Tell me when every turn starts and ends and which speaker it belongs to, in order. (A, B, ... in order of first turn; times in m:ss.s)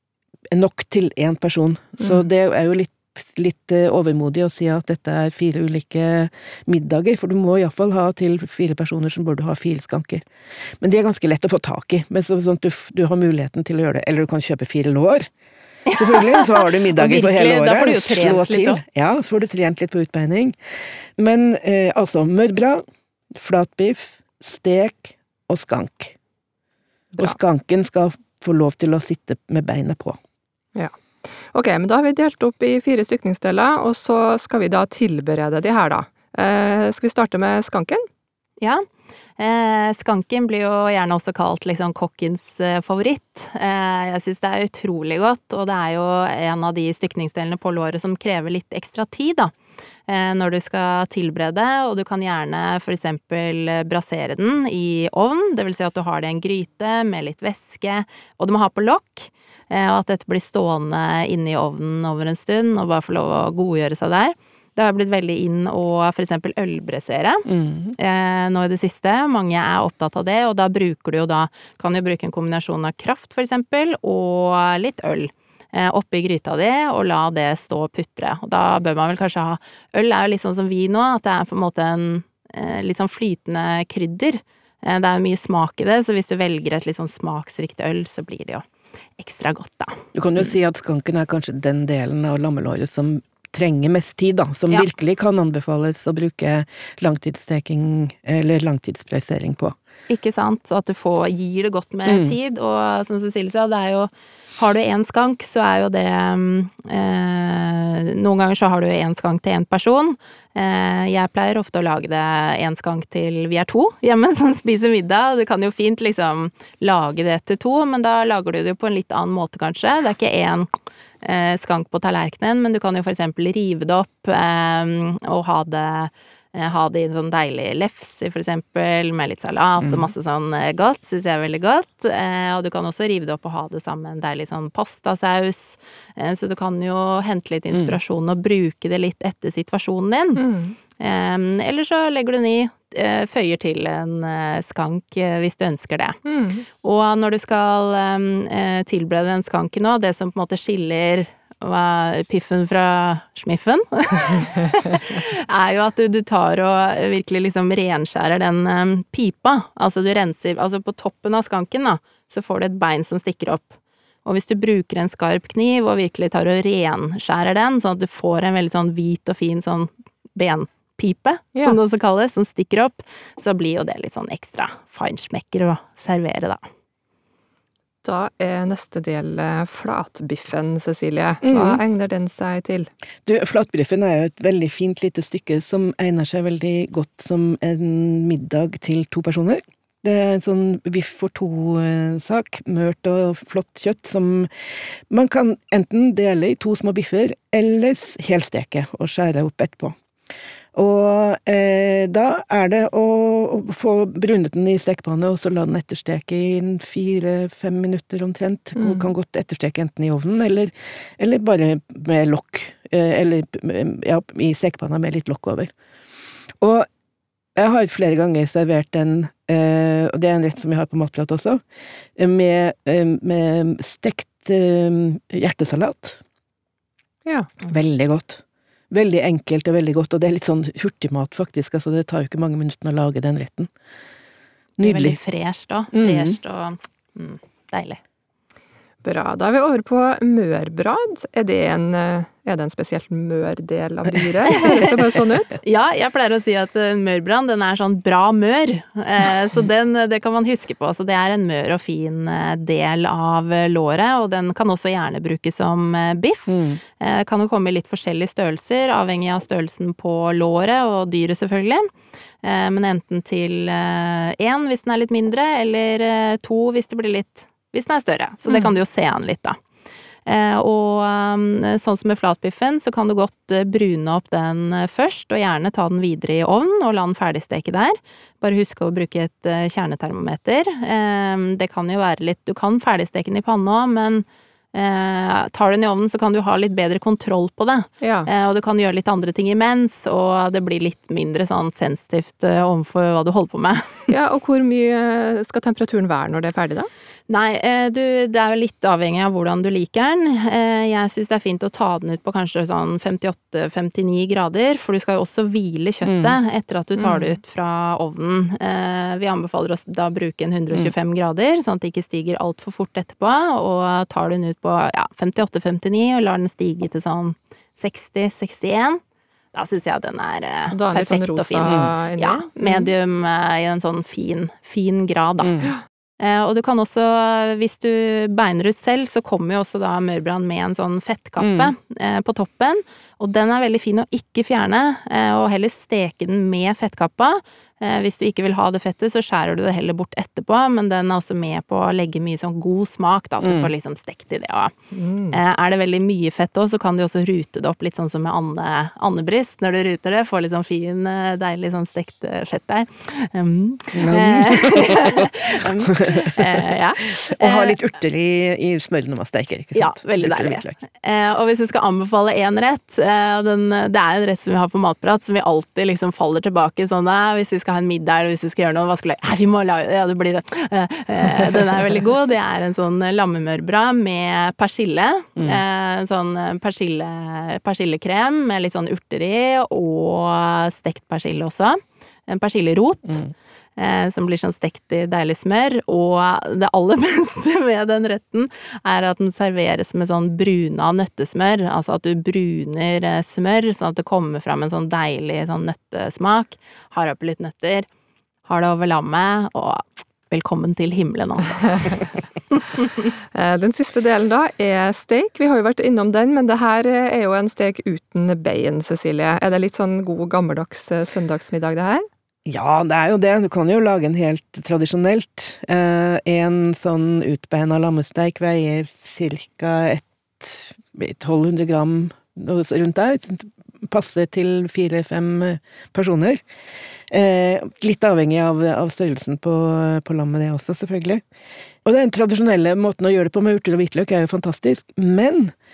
0:00.5-0:10.2 A
0:10.8-0:15.3 A
0:15.9-0:18.8 B
0:15.9-0:20.6 A
0:21.2-0:26.2 A
0:27.2-0:30.2 A
0:30.8-0:38.1 C
0:39.4-0:49.5 B
0:50.1-1:28.6 B
1:07.5-1:08.0 A
1:29.2-1:30.5 B
1:30.2-1:39.7 A
1:40.1-2:00.7 B
1:42.1-1:42.4 A
2:01.2-2:20.4 B
2:09.8-2:10.1 A
2:17.7-2:18.0 A
2:20.4-2:20.8 C
2:21.0-2:26.2 B
2:26.2-2:26.6 C
2:26.8-2:56.6 B
2:58.0-3:02.9 C
3:01.4-3:01.8 A
3:03.3-3:14.5 A
3:15.1-3:20.0 A
3:20.8-3:35.7 A
3:28.8-3:29.1 C
3:36.6-3:36.9 A
3:37.6-3:41.6 A
3:42.2-3:46.2 A
3:47.6-3:53.7 A
3:54.8-3:55.2 A
3:54.8-3:58.0 B
3:55.9-3:56.4 A
3:59.0-4:05.6 C
4:04.5-4:04.9 B
4:05.5-4:21.9 B
4:16.5-4:16.8 A
4:22.4-4:29.6 B
4:28.5-4:28.8 C
4:30.3-4:54.1 B
4:48.0-4:48.3 C
4:54.1-4:56.9 C
4:57.3-5:19.0 B
5:06.0-5:06.4 A
5:07.0-5:07.4 C
5:19.5-5:25.6 B
5:20.7-5:22.9 C
5:21.7-5:21.9 A
5:25.4-5:25.7 A
5:26.2-5:44.7 B
5:31.4-5:31.7 A
5:43.4-5:43.7 A
5:44.9-5:45.4 C
5:45.3-5:57.8 B
5:54.0-5:55.3 A
5:55.9-5:56.4 A
5:57.0-6:00.8 A
5:59.7-6:23.2 B
6:15.4-6:15.6 A
6:23.8-6:37.9 B
6:38.5-6:43.1 B
6:43.4-6:52.1 C
6:52.5-7:06.4 A
7:07.1-7:11.2 A
7:11.8-7:15.5 A